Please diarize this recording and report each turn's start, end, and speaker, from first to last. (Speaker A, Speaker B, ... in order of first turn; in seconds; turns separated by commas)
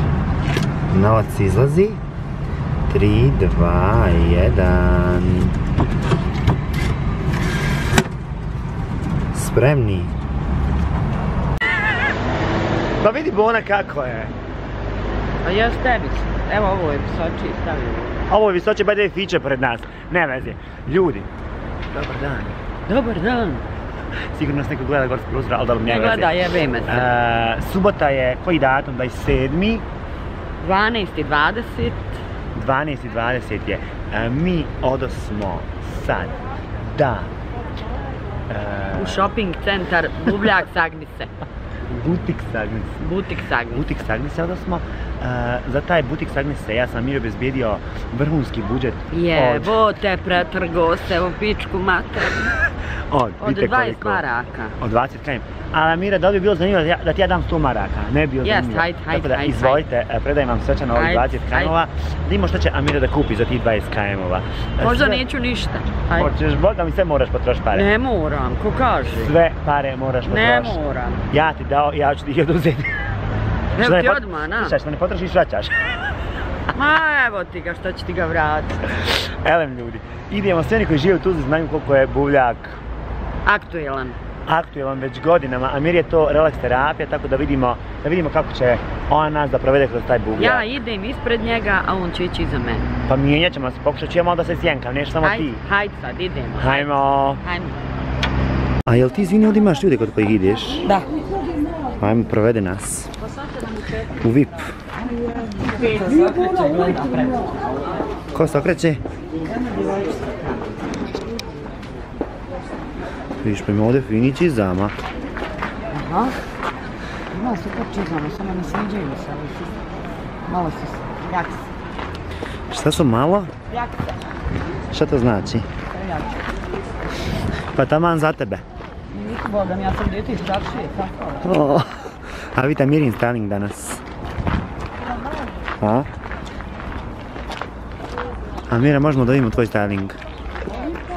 Speaker A: 0.9-2.0, Speaker A: 2.9-5.6, Speaker A: 9.3-10.1, Speaker A: 13.0-14.3, Speaker B: 15.4-18.3, Speaker A: 18.3-21.3, Speaker A: 21.9-22.6, Speaker B: 22.9-23.7, Speaker A: 24.4-29.9, Speaker B: 25.9-27.1, Speaker B: 30.6-32.2, Speaker A: 32.5-36.4, Speaker A: 36.9-37.3, Speaker A: 38.5-39.3, Speaker B: 39.0-41.3, Speaker A: 41.9-43.0, Speaker B: 43.0-43.8, Speaker A: 43.7-49.7, Speaker B: 49.1-52.5, Speaker A: 53.1-54.2, Speaker B: 53.4-54.8, Speaker A: 54.8-65.2, Speaker B: 58.4-59.8, Speaker B: 60.9-61.8, Speaker B: 64.8-66.3, Speaker A: 66.1-67.9, Speaker B: 67.7-69.3, Speaker A: 69.2-70.8, Speaker B: 70.2-71.2, Speaker A: 71.3-73.0, Speaker B: 73.8-74.8, Speaker A: 73.8-75.8, Speaker B: 76.7-78.9, Speaker A: 79.2-82.8, Speaker B: 83.5-84.2, Speaker A: 84.5-90.7, Speaker B: 90.4-92.9, Speaker A: 93.1-95.6, Speaker B: 95.2-97.8, Speaker A: 96.6-97.4, Speaker A: 98.9-100.8, Speaker A: 102.0-103.1, Speaker A: 104.2-104.7, Speaker B: 105.5-107.5, Speaker A: 108.3-109.0, Speaker B: 109.5-110.8, Speaker A: 113.4-115.0, Speaker B: 115.9-116.4, Speaker B: 117.3-119.8, Speaker B: 120.5-121.7, Speaker A: 122.7-123.5, Speaker B: 123.7-124.2, Speaker A: 124.9-125.7, Speaker B: 125.9-126.4, Speaker A: 127.7-128.6, Speaker B: 129.1-131.4, Speaker A: 131.4-134.0, Speaker A: 135.8-136.1, Speaker A: 138.7-140.2